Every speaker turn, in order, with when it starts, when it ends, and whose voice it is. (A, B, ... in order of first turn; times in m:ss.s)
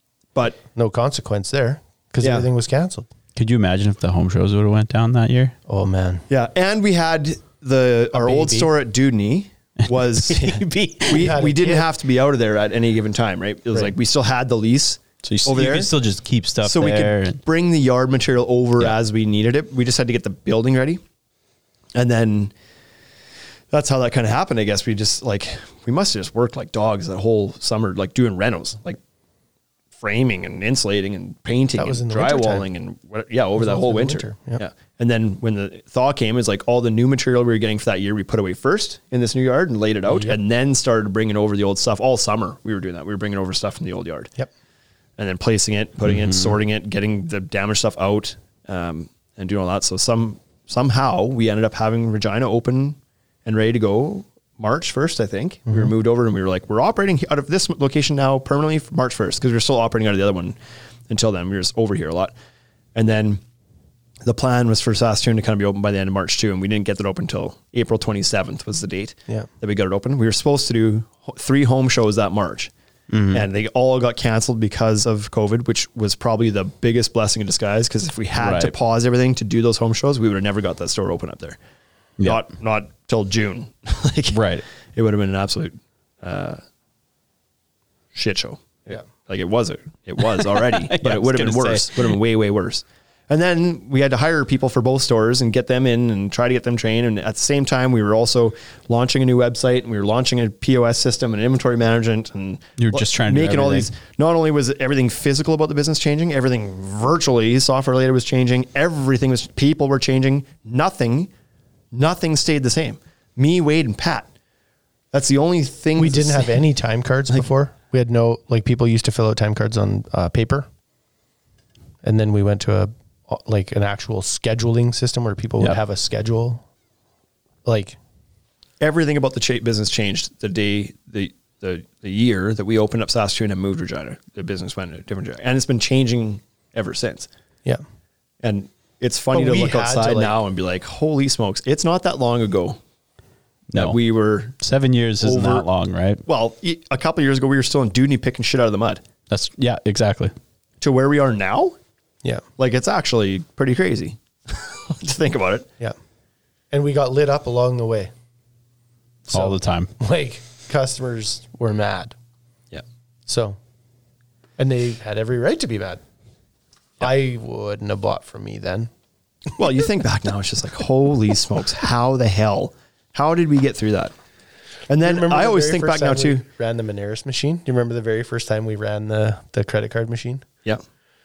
0:00.7-0:03.1 A
0:02.2-0:02.5 B
0:03.4-0:05.6 C
0:05.7-0:06.2 A
0:06.3-0:15.9 B
0:08.1-0:08.7 A
0:10.3-0:11.3 C
0:11.1-0:11.9 A
0:15.2-0:17.4 C
0:16.6-0:21.0 B
0:22.0-0:22.5 B
0:23.7-0:29.0 B
0:30.0-0:44.3 B
0:31.8-0:32.7 A
0:33.6-0:34.6 A
0:40.1-0:40.4 A
0:45.2-1:00.6 B
0:46.1-0:46.5 C
1:01.1-1:02.3 B
1:03.0-1:03.4 B
1:04.2-1:12.7 B
1:13.1-1:13.4 C
1:13.3-1:21.6 B
1:18.4-1:18.7 C
1:22.2-1:22.4 C
1:22.2-1:24.4 B
1:24.3-1:24.6 C
1:24.9-1:26.6 B
1:28.1-1:51.3 B
1:30.4-1:32.2 C
1:42.8-1:43.9 C
1:51.9-1:54.3 B
1:55.1-1:56.6 B
1:56.0-2:00.7 A
2:02.0-2:06.6 A
2:07.6-2:08.0 A
2:08.8-2:17.3 B
2:18.4-2:22.8 B
2:19.3-2:20.4 A
2:23.7-2:24.0 C
2:23.7-2:24.6 B
2:24.6-2:26.2 C
2:25.2-2:25.7 B
2:26.3-2:29.0 B
2:29.3-2:30.3 C
2:30.8-2:31.8 B
2:32.6-2:35.7 B
2:36.7-2:38.1 A
2:39.3-2:42.1 A
2:39.3-2:39.9 C
2:43.3-2:43.6 A
2:44.6-2:46.0 A
2:47.0-2:48.9 A
2:49.6-2:54.1 B
2:54.9-2:56.4 B
2:55.0-3:00.4 A